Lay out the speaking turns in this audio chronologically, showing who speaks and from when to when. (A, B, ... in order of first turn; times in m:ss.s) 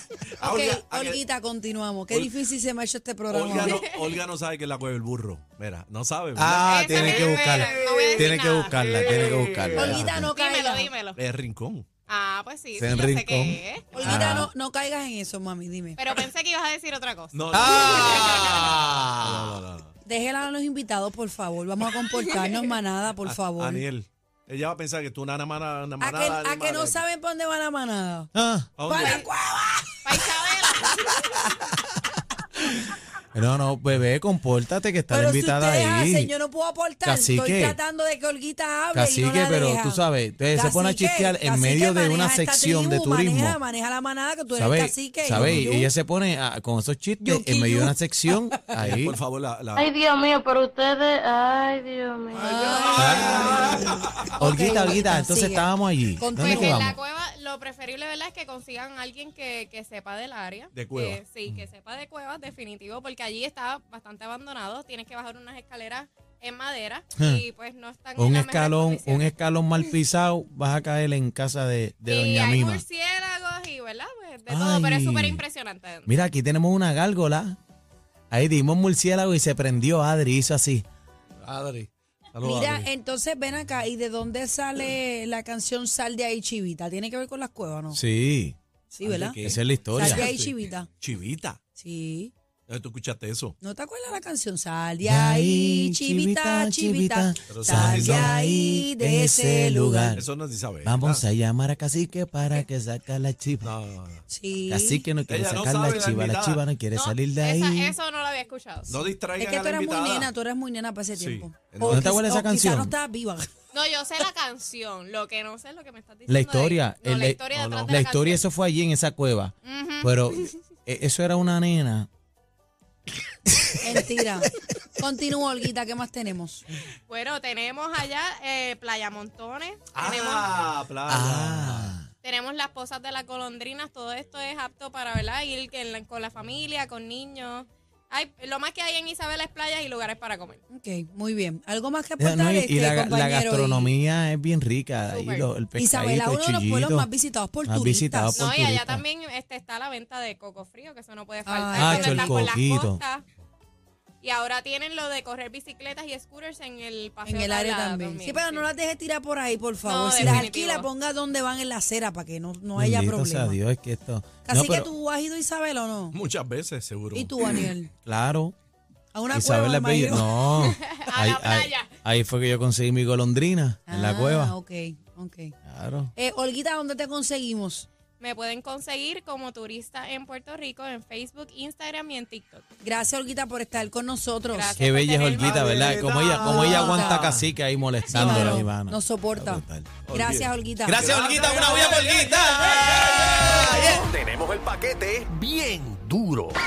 0:00.4-0:01.2 A
0:00.4-0:03.9 B
0:02.1-0:02.3 A
0:03.3-0:10.3 A
0:03.5-0:04.2 C
0:06.4-0:10.2 D
0:06.6-0:09.1 C
0:09.7-0:10.9 B
0:10.1-0:11.2 C
0:11.2-0:11.8 A
0:12.1-0:14.3 C
0:12.8-0:14.5 D
0:13.9-0:16.0 B
0:16.0-0:18.7 C
0:17.3-0:18.7 A
0:17.5-0:19.6 D
0:19.2-0:19.9 A
0:20.0-0:23.8 B
0:22.1-0:22.7 C
0:23.2-0:27.0 A
0:26.0-0:28.3 B
0:28.3-0:28.7 D
0:28.8-0:29.2 A
0:28.8-0:30.3 B
0:29.0-0:29.3 C
0:30.0-0:31.4 C
0:33.3-0:36.3 D
0:35.1-0:45.9 B
0:37.0-0:37.8 D
0:38.9-0:43.6 D
0:44.6-0:49.2 D
0:45.3-0:45.7 A
0:47.2-0:48.7 B
0:48.8-0:49.9 A
0:49.7-0:52.7 E
0:52.3-0:54.4 A
0:52.4-0:56.9 B
0:52.6-0:53.4 C
0:53.0-0:57.0 D
0:56.4-1:09.8 C
1:00.7-1:01.2 A
1:07.2-1:07.4 D
1:08.2-1:12.8 D
1:12.1-1:16.1 C
1:14.5-1:15.4 D
1:16.0-1:17.6 D
1:18.3-1:20.8 D
1:21.4-1:22.9 A
1:22.4-1:28.0 B
1:27.9-1:28.6 D
1:28.9-1:29.4 B
1:29.0-1:31.6 A
1:29.4-1:30.3 D
1:29.9-1:30.9 B
1:31.8-1:32.3 B
1:32.7-1:33.5 A
1:33.6-1:40.2 B
1:35.0-1:40.2 D
1:37.5-1:38.4 A
1:40.1-1:41.2 A
1:40.8-1:43.7 D
1:43.6-1:44.2 A
1:44.3-1:45.1 B
1:44.7-1:47.9 D
1:45.2-1:46.6 A
1:46.9-1:49.1 C
1:48.9-1:50.3 A
1:49.3-1:53.5 B
1:51.1-1:52.3 A
1:51.8-1:52.9 D
1:53.7-1:58.4 C
1:56.3-2:02.1 D
1:57.6-1:58.0 A
1:59.6-2:00.5 C
2:03.8-2:06.6 B
2:07.1-2:10.5 C
2:09.9-2:11.9 A
2:11.1-2:12.1 D
2:12.2-2:20.6 C
2:20.7-2:23.9 B
2:22.2-2:27.1 D
2:25.1-2:25.5 C
2:25.8-2:28.4 B
2:27.6-2:29.0 D
2:28.3-2:33.2 C
2:31.4-2:32.5 B
2:31.8-2:33.0 D
2:34.2-2:38.7 C
2:37.2-2:43.6 B
2:39.8-2:40.9 C
2:40.2-2:40.5 D
2:42.8-2:44.9 D
2:44.4-2:46.2 B
2:46.1-2:47.3 A
2:47.1-2:47.9 B
2:48.0-2:48.5 D
2:49.1-2:50.3 B
2:49.3-2:54.6 D
2:50.6-2:51.9 C
2:53.9-2:55.5 B
2:55.6-2:56.1 D
2:56.1-2:57.9 B
2:58.2-3:02.6 C
3:02.8-3:04.8 B
3:04.5-3:05.8 C
3:04.8-3:09.9 D
3:05.3-3:07.5 A
3:05.4-3:07.4 B
3:08.1-3:11.3 B
3:08.1-3:08.6 A
3:10.0-3:13.9 A
3:10.8-3:14.1 D
3:13.6-3:16.6 F
3:13.6-3:14.0 B